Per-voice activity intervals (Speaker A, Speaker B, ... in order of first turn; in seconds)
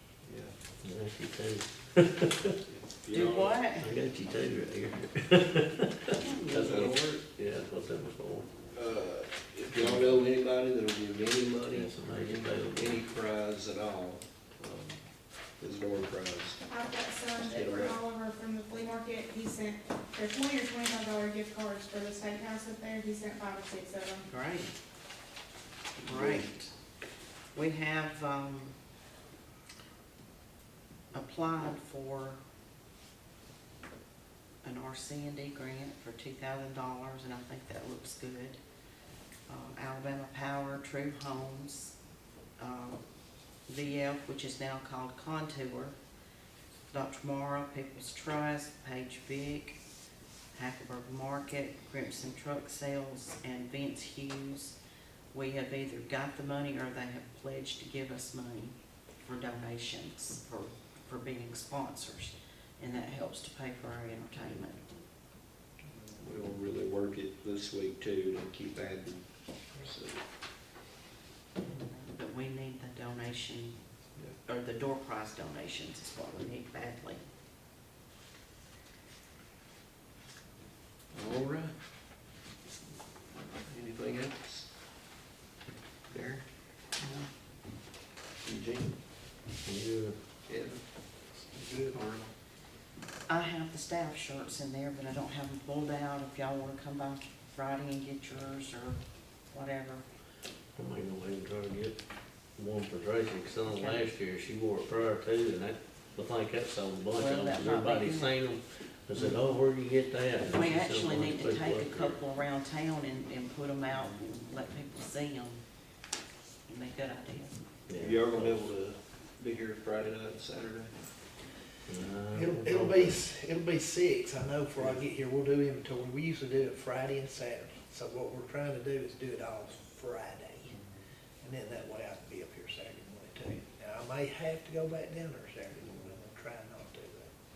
Speaker A: 0.2-0.5, 2.7-3.5, 6.7-7.0, 8.7-15.0, 15.6-16.6, 17.4-18.0, 26.1-26.5, 66.1-70.2, 81.1-81.7, 83.6-84.7, 86.1-86.4, 88.4-89.0, 90.5-90.8, 91.5-92.3, 118.0-121.0, 135.9-136.1
Speaker B: 0.8-2.5, 3.1-8.5, 9.7-10.2, 11.7-13.0, 89.6-90.2, 100.7-102.0, 102.6-112.2, 117.9-118.6, 121.9-123.2
Speaker C: 3.1-3.9, 6.1-7.1, 24.2-24.7, 26.0-26.6, 27.5-28.8, 31.1-32.4, 34.6-38.6, 39.5-41.9, 42.6-43.0, 43.7-46.0, 46.9-49.8, 50.5-54.8, 55.3-64.8, 71.7-73.8, 74.4-77.2, 87.0-87.3, 93.3-99.0, 99.5-100.0, 103.7-104.0, 107.1-108.3, 109.1-109.4, 110.4-115.6, 116.7-117.6
Speaker D: 16.6-24.2
Speaker E: 122.3-130.8, 131.4-137.3